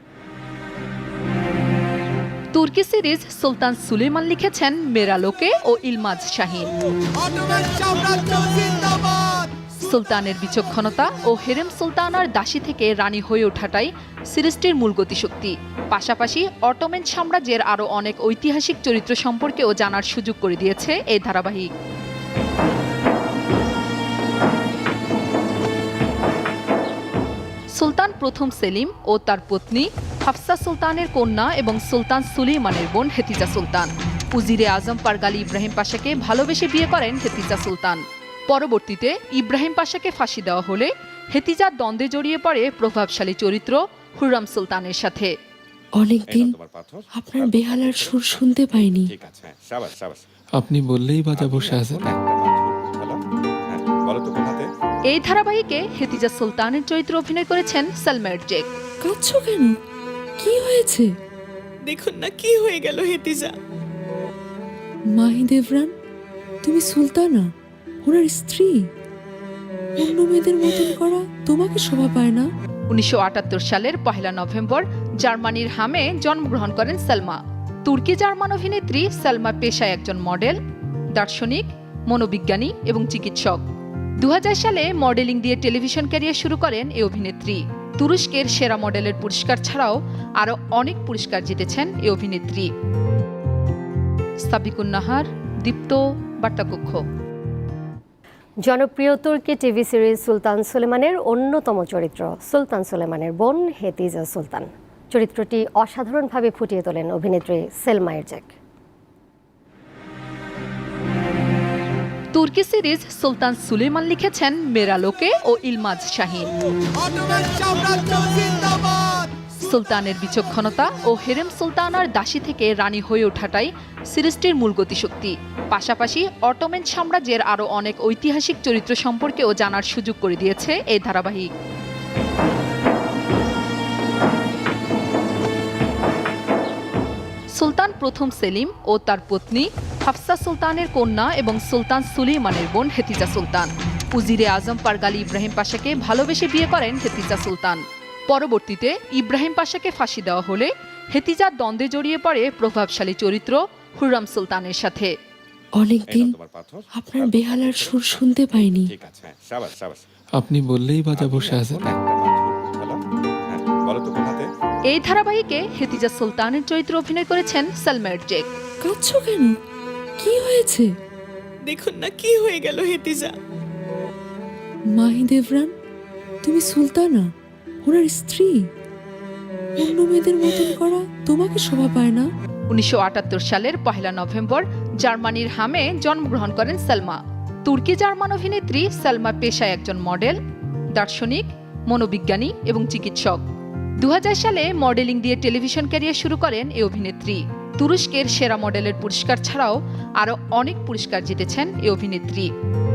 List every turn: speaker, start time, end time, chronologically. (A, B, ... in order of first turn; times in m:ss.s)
0:02.5-0:06.7 A
0:07.4-0:09.0 A
0:09.8-0:21.7 A
0:27.7-0:45.3 A
0:46.0-0:46.6 B
0:46.3-0:50.2 C
0:47.1-0:49.1 B
0:50.6-0:52.1 D
0:51.3-0:54.7 C
0:55.1-0:58.7 A
0:59.0-0:59.8 B
1:00.4-1:01.1 B
1:01.8-1:03.6 E
1:05.1-1:05.9 B
1:06.6-1:07.5 B
1:08.0-1:08.9 B
1:10.0-1:12.5 B
1:10.6-1:10.9 E
1:12.9-1:20.6 A
1:21.1-1:23.6 A
1:24.2-1:32.7 A
1:34.4-1:37.0 A
1:38.6-1:48.6 F
1:52.3-1:56.5 A
1:57.1-1:58.7 A
1:59.5-2:11.5 A
2:17.5-2:35.1 A
2:35.8-2:36.3 B
2:36.1-2:40.0 C
2:36.9-2:38.9 B
2:40.4-2:41.9 D
2:41.1-2:44.5 C
2:44.9-2:48.5 A
2:48.8-2:49.6 B
2:50.2-2:50.9 B
2:51.6-2:53.4 E
2:54.9-2:55.8 B
2:56.4-2:57.3 B
2:57.8-2:58.7 B
2:59.8-3:02.3 B
3:02.7-3:10.4 A
3:10.9-3:13.4 A
3:14.0-3:22.5 A